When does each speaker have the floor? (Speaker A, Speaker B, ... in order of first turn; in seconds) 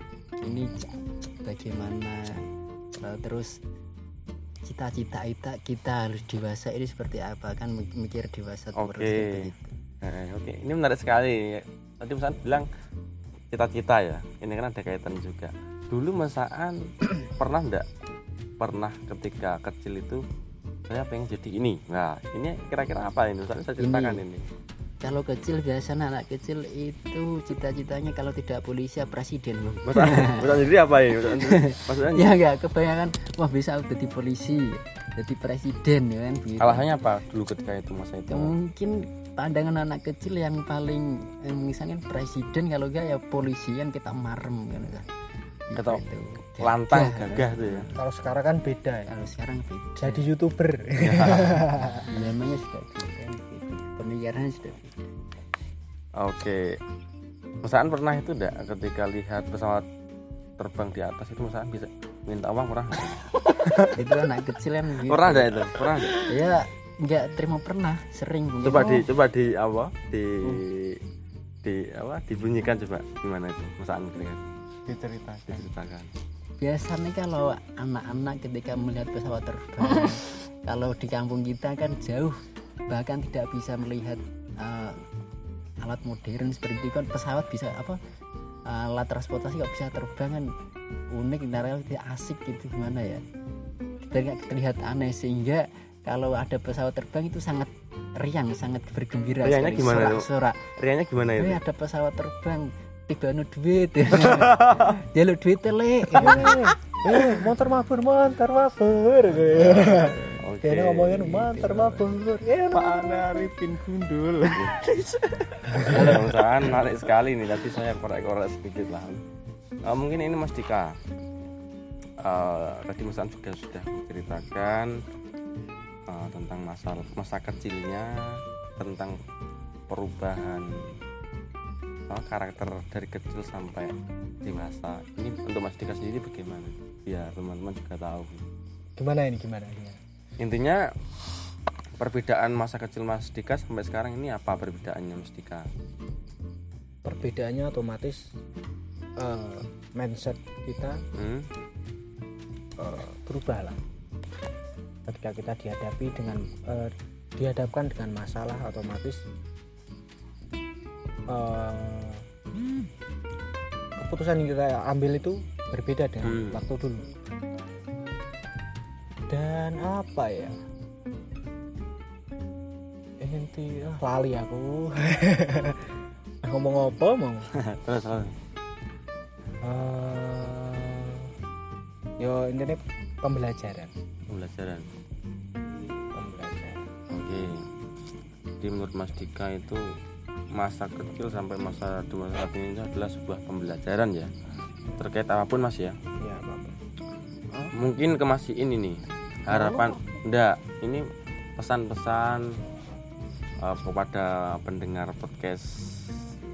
Speaker A: 0.4-2.5, 3.0-3.5, 4.7-9.8, 23.8-24.2, 25.0-30.6, 31.3-36.9, 38.3-45.1, 45.7-47.9, 49.1-50.3, 51.9-55.1, 63.9-65.5, 66.3-69.1, 76.6-85.0, 85.8-88.0, 88.7-90.5, 91.1-93.2, 94.0-100.7, 101.4-106.7
Speaker B: 8.8-9.5, 10.0-12.7, 13.5-17.9, 18.6-20.2, 20.9-24.4, 29.9-32.4, 36.6-38.5, 45.8-46.0, 46.6-47.9, 51.0-51.7, 56.2-56.8, 57.6-59.9, 60.6-63.9, 65.1-66.2, 68.6-71.0, 71.6-74.4, 75.5-76.1, 99.4-100.3, 100.8-101.6, 109.5-112.0, 114.5-114.8, 115.8-119.2, 119.9-121.0, 122.2-124.9, 126.1-129.2, 129.9-131.0, 132.1-138.4, 140.4-140.9, 142.0-145.7, 151.2-151.5, 166.2-166.6, 177.6-178.4, 184.3-184.9, 187.1-187.7, 188.6-190.0, 190.5-194.3, 195.0-196.0, 197.7-202.6, 203.6-206.2
Speaker C: 47.9-49.1, 50.0-52.1, 106.2-113.0, 139.0-140.0, 147.1-148.3, 149.2-151.0, 152.8-153.8, 155.1-159.2, 161.3-162.3, 164.0-167.1, 169.3-170.6, 173.2-175.8, 176.4-177.5, 179.6-181.3, 182.2-183.9, 186.1-186.9, 196.2-196.8
Speaker D: 66.0-66.3, 74.9-75.6, 104.2-104.9, 106.2-106.6, 112.7-117.1, 199.5-200.0